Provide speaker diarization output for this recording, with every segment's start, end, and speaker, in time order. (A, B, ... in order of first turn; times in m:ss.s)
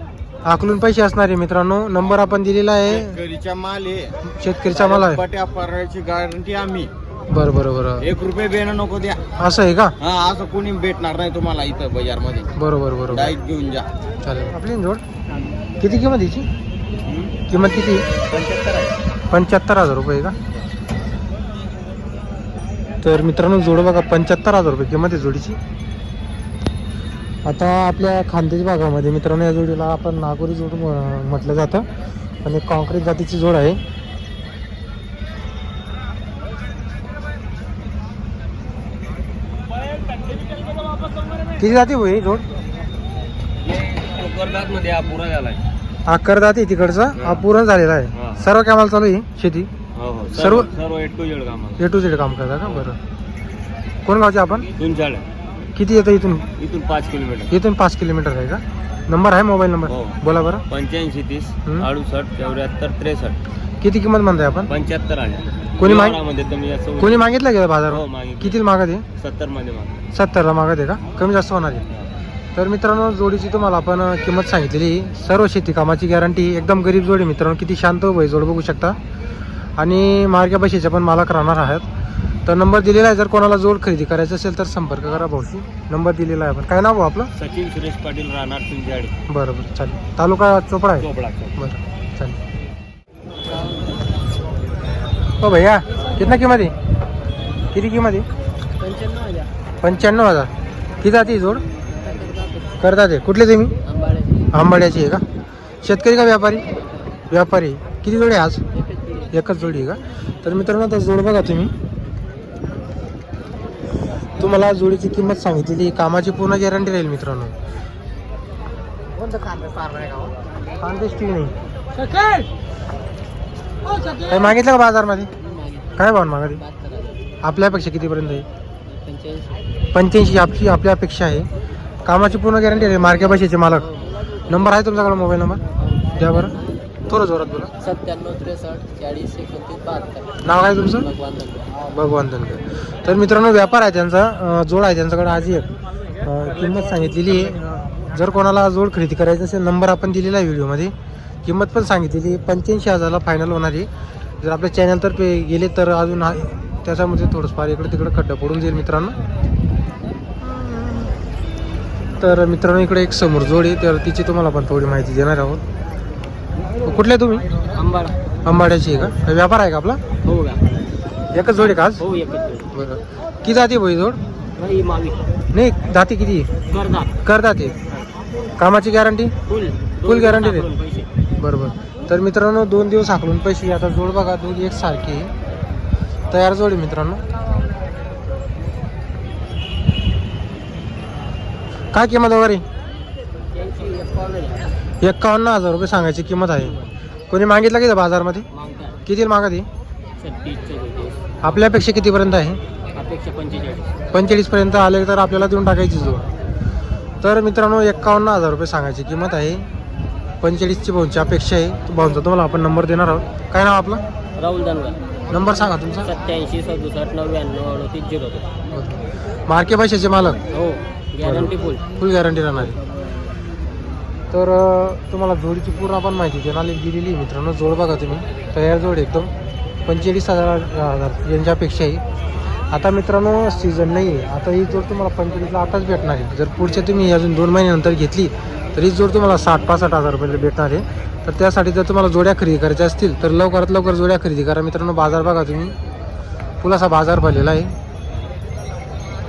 0:00.4-0:03.2 A
0:02.9-0:04.1 B
0:04.3-0:05.2 A
0:04.7-0:06.9 B
0:07.3-0:08.1 A
0:08.0-0:09.2 B
0:09.4-0:09.9 A
0:10.0-0:12.5 B
0:12.6-0:13.4 A
0:13.1-0:13.9 B
0:14.2-0:15.0 A
0:15.8-0:16.5 A
0:17.5-0:18.1 A
0:18.3-0:18.9 C
0:19.3-0:20.4 A
0:23.0-0:25.6 A
0:27.4-0:31.8 A
0:32.4-0:33.8 A
0:41.6-0:42.4 A
0:43.7-0:45.6 C
0:46.0-0:49.7 A
0:48.2-0:48.4 C
0:50.0-0:51.8 C
0:50.3-0:50.7 A
0:51.8-0:53.0 A
0:54.0-0:54.7 A
0:54.8-0:55.2 C
0:55.7-0:56.5 A
0:56.6-0:57.5 C
0:57.5-1:00.6 A
0:59.9-1:00.2 C
1:00.7-1:03.4 C
1:03.8-1:04.7 A
1:04.7-1:07.2 C
1:05.8-1:06.2 A
1:07.0-1:09.0 A
1:07.9-1:08.6 C
1:09.2-1:10.0 C
1:10.1-1:11.8 A
1:12.5-1:19.0 A
1:19.8-1:21.8 A
1:22.4-1:27.3 A
1:27.4-1:29.1 C
1:29.3-1:32.4 A
1:31.0-1:31.5 C
1:33.5-1:33.9 D
1:35.4-1:36.7 A
1:37.7-1:38.3 A
1:38.8-1:39.5 D
1:39.8-1:40.5 A
1:41.0-1:41.6 A
1:41.9-1:42.8 D
1:42.8-1:43.8 A
1:43.8-1:44.5 D
1:44.5-1:45.2 A
1:45.8-1:46.6 A
1:47.3-1:48.6 A
1:48.9-1:49.3 D
1:49.3-1:51.7 A
1:54.4-1:57.5 A
1:59.2-2:00.3 D
2:00.8-2:01.5 A
2:04.2-2:05.3 A
2:05.4-2:06.0 D
2:06.0-2:06.6 A
2:06.6-2:07.3 D
2:07.4-2:08.4 A
2:08.9-2:09.6 D
2:09.9-2:11.5 A
2:12.0-2:13.9 A
2:13.2-2:14.1 D
2:14.5-2:16.5 A
2:17.1-2:17.7 A
2:17.8-2:21.8 D
2:20.4-2:21.1 A
2:21.8-2:25.7 A
2:26.2-2:30.9 A
2:31.4-2:33.9 A
2:34.4-2:39.2 A
2:40.4-2:41.1 A
2:42.2-2:45.6 A
2:46.8-2:47.5 A
2:47.7-2:48.2 D
2:48.4-2:50.0 A
2:50.2-2:50.6 D
2:51.3-2:52.0 A
2:52.0-2:52.7 D
2:52.7-2:54.2 A
2:54.6-2:55.2 D
2:55.5-2:56.5 A
2:56.7-2:57.1 D
2:57.2-2:57.8 A
2:58.6-2:59.3 A
2:59.5-3:01.0 D
3:00.0-3:00.7 A
3:01.4-3:05.3 A
3:06.3-3:07.2 A
3:11.9-3:12.6 A
3:13.5-3:14.7 D
3:15.0-3:16.8 A
3:17.3-3:18.5 A
3:18.5-3:19.0 D
3:19.0-3:19.7 A
3:20.2-3:21.2 D
3:21.4-3:22.6 A
3:22.9-3:24.0 D
3:24.1-3:26.3 A
3:27.2-3:29.7 A
3:30.4-3:34.0 A
3:34.4-3:35.0 D
3:35.3-3:36.1 A
3:36.0-3:38.5 D
3:38.7-3:40.4 A
3:40.5-3:41.8 D
3:41.2-3:42.8 A
3:44.3-3:49.3 A
3:49.8-3:52.0 A
3:52.7-4:05.7 A
4:06.6-4:07.7 A